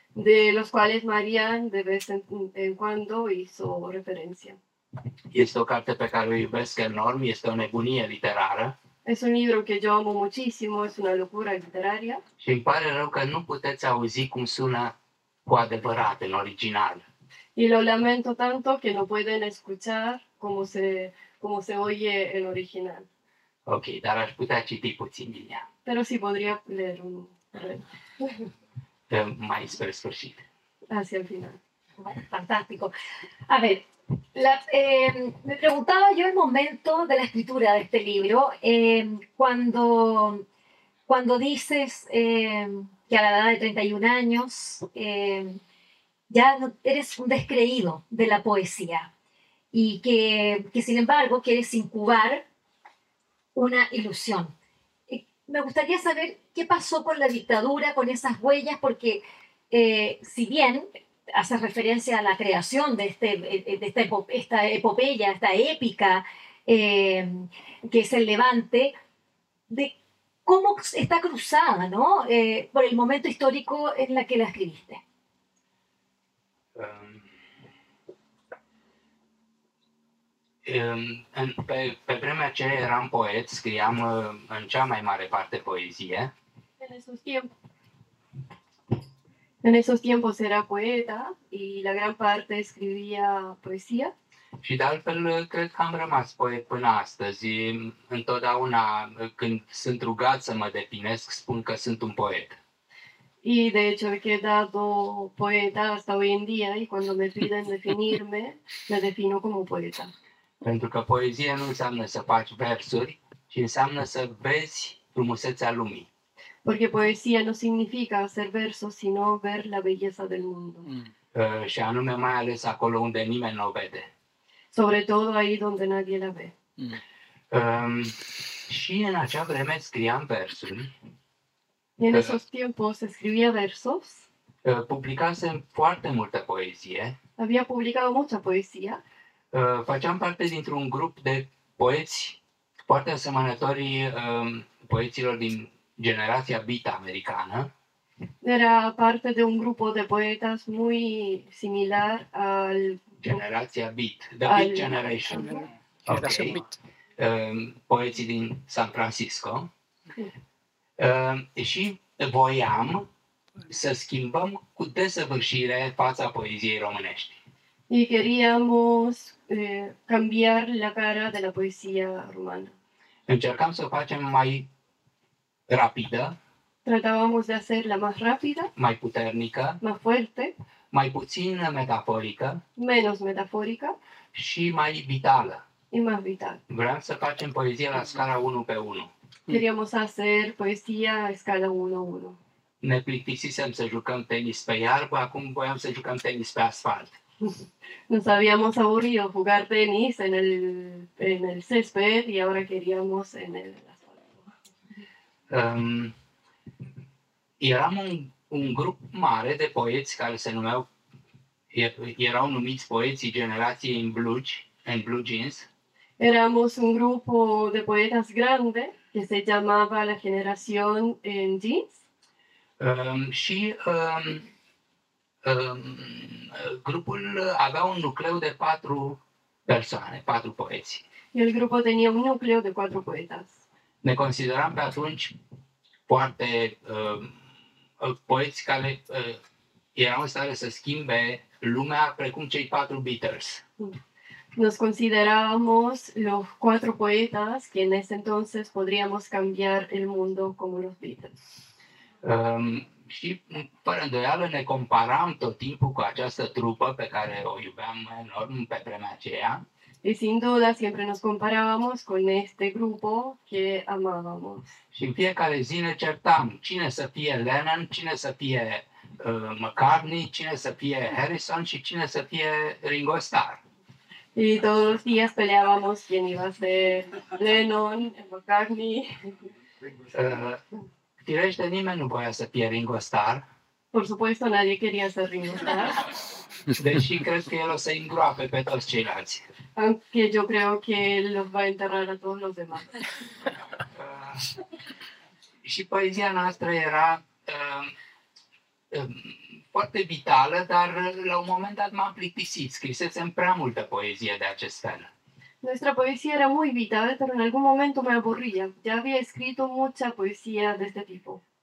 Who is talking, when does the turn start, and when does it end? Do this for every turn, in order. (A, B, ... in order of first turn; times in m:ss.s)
0:00.1-0:04.6 A
0:05.3-0:08.8 B
0:09.0-0:12.2 A
0:12.4-0:17.1 B
0:17.6-0:23.1 A
0:23.6-0:25.6 B
0:25.9-0:28.5 A
0:29.1-0:30.5 B
0:30.9-0:31.6 A
0:32.0-0:32.9 C
0:33.5-0:40.4 C
0:41.1-0:45.6 C
0:46.3-0:49.1 C
0:49.7-0:52.4 C
0:53.5-0:54.5 C
0:55.1-1:09.0 C
1:09.7-1:09.9 C
1:10.5-1:15.0 C
1:16.8-1:17.3 B
1:20.6-1:26.3 B
1:26.8-1:27.5 A
1:29.6-1:34.1 A
1:34.6-1:42.6 B
1:43.4-1:50.1 A
1:50.6-1:56.1 B
1:56.6-2:00.9 A
2:01.3-2:04.1 B
2:04.7-2:06.5 A
2:07.5-2:10.9 B
2:12.0-2:14.3 A
2:12.1-2:12.4 B
2:14.6-2:17.2 B
2:17.4-2:19.0 A
2:19.5-2:27.7 B
2:28.4-2:33.2 A
2:33.2-2:36.6 B
2:34.5-2:35.6 A
2:37.2-2:39.7 B
2:41.0-2:43.1 B
2:43.7-2:47.4 B
2:47.9-2:52.7 A
2:53.3-2:54.7 B
2:55.7-2:56.4 B
2:56.8-2:58.7 A
2:58.8-2:59.8 B
2:59.8-3:00.5 A
3:00.9-3:02.6 B
3:02.8-3:04.0 A
3:04.3-3:05.6 B
3:05.9-3:06.6 A
3:06.7-3:09.1 B
3:09.5-3:12.4 A
3:12.8-3:17.2 B
3:18.1-3:24.5 A
3:25.5-3:26.2 B
3:27.6-3:30.9 B
3:31.7-3:35.7 B
3:36.2-3:42.0 A
3:42.8-3:44.5 B
3:45.4-3:51.0 B
3:51.3-3:53.6 A
3:54.0-3:55.3 B
3:56.1-3:57.4 B
3:58.0-3:59.4 B
4:00.0-4:03.6 B
4:04.6-4:11.4 A
4:12.2-4:19.6 B
4:20.0-4:24.7 A
4:24.9-4:33.6 B
4:34.4-4:39.3 A
4:40.1-4:40.6 B
4:41.2-4:43.5 B
4:43.9-4:46.0 A
4:46.7-4:49.4 B
4:49.8-4:53.0 A
4:53.9-4:54.5 B
4:55.6-4:57.9 B
4:58.9-5:05.1 B
5:05.6-5:11.4 A